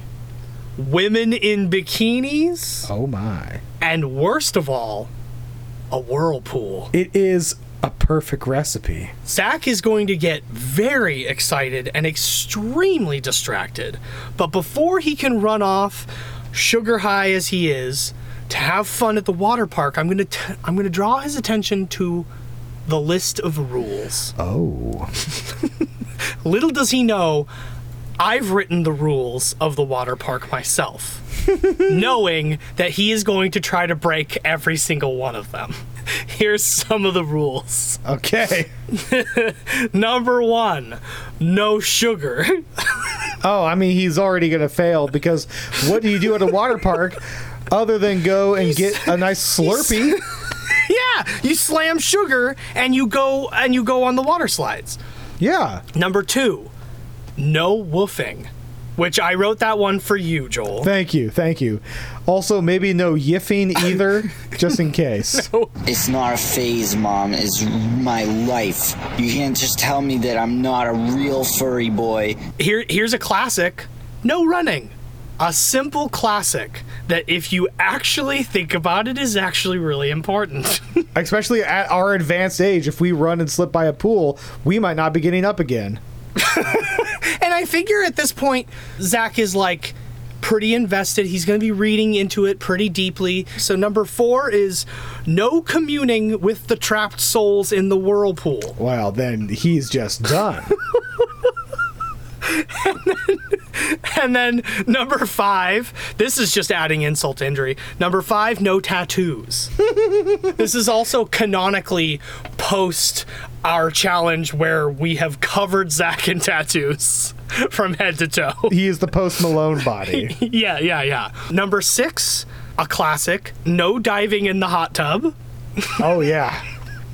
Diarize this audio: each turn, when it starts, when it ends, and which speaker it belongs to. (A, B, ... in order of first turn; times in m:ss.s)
0:00.8-0:02.9 A
0:02.8-0:03.6 B
0:03.8-0:05.1 A
0:05.9-0:06.9 A
0:06.9-0:09.1 B
0:09.3-0:22.3 A
0:22.9-0:24.3 A
0:24.4-0:25.1 B
0:26.4-0:27.5 A
0:28.2-0:31.2 A
0:31.6-0:31.9 B
0:31.9-0:38.0 A
0:38.0-0:38.7 B
0:38.9-0:42.6 A
0:43.4-0:50.2 B
0:48.7-0:49.1 A
0:49.6-0:55.0 A
0:55.4-0:55.8 B
0:56.0-0:56.7 A
0:57.4-1:00.9 A
1:00.8-1:05.5 B
1:05.3-1:05.7 A
1:05.8-1:12.4 C
1:12.6-1:21.0 A
1:21.2-1:26.0 B
1:26.4-1:38.8 A
1:38.8-1:40.7 B
1:42.5-1:49.7 A
1:50.0-1:50.5 B
1:50.6-1:58.8 A
1:58.7-2:00.4 B
2:00.1-2:06.0 A
2:06.0-2:06.6 B